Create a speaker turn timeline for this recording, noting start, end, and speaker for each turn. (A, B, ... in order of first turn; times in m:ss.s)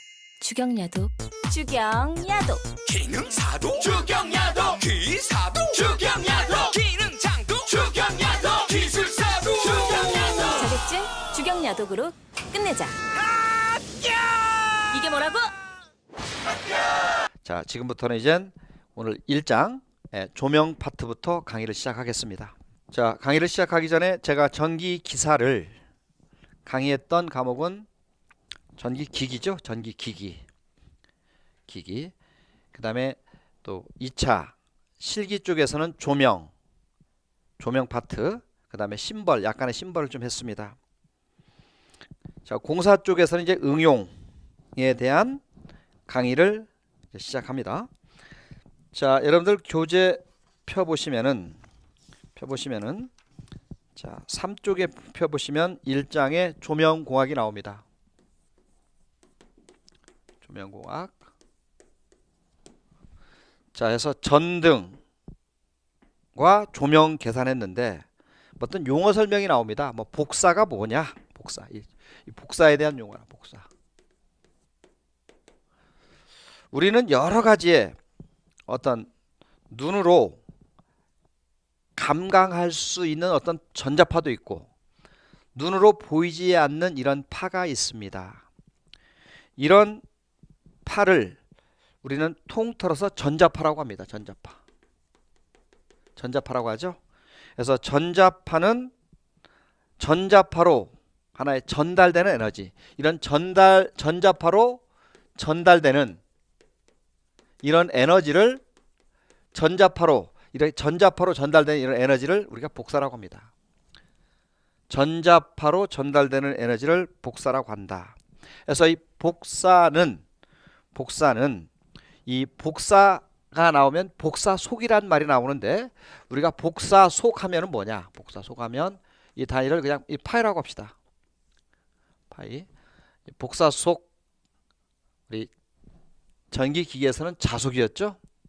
0:00.4-0:02.8 A
0:02.9-0:10.5 B
0:06.7-0:07.5 A
0:09.7-0:13.0 A
0:13.6-0:14.1 B
0:14.8-0:15.5 A
0:17.4-0:25.8 C
0:26.7-0:27.9 C
0:28.8-0:30.4 C
0:31.7-0:32.1 C
0:32.7-0:36.5 C
0:37.6-0:40.8 C
0:42.4-0:44.1 C
0:44.8-0:45.4 C
0:46.1-0:47.9 C
0:48.9-0:51.6 C
0:52.4-0:53.1 C
0:54.0-0:57.8 C
1:00.4-1:01.2 C
1:03.7-1:05.0 C
1:06.4-1:08.0 C
1:08.6-1:13.7 C
1:16.7-1:18.0 C
1:18.7-1:19.1 C
1:19.7-1:20.4 C
1:22.0-1:24.7 C
1:25.6-1:28.4 C
1:29.6-1:30.0 C
1:30.8-1:31.4 C
1:32.0-1:34.6 C
1:36.2-1:37.0 C
1:37.6-1:38.9 C
1:40.0-1:44.8 C
1:45.4-1:46.2 C
1:47.6-1:48.6 C
1:49.5-1:53.5 C
1:54.9-2:00.2 C
2:00.9-2:01.7 C
2:02.3-2:10.9 C
2:12.3-2:12.7 C
2:13.3-2:14.1 C
2:16.5-2:18.2 C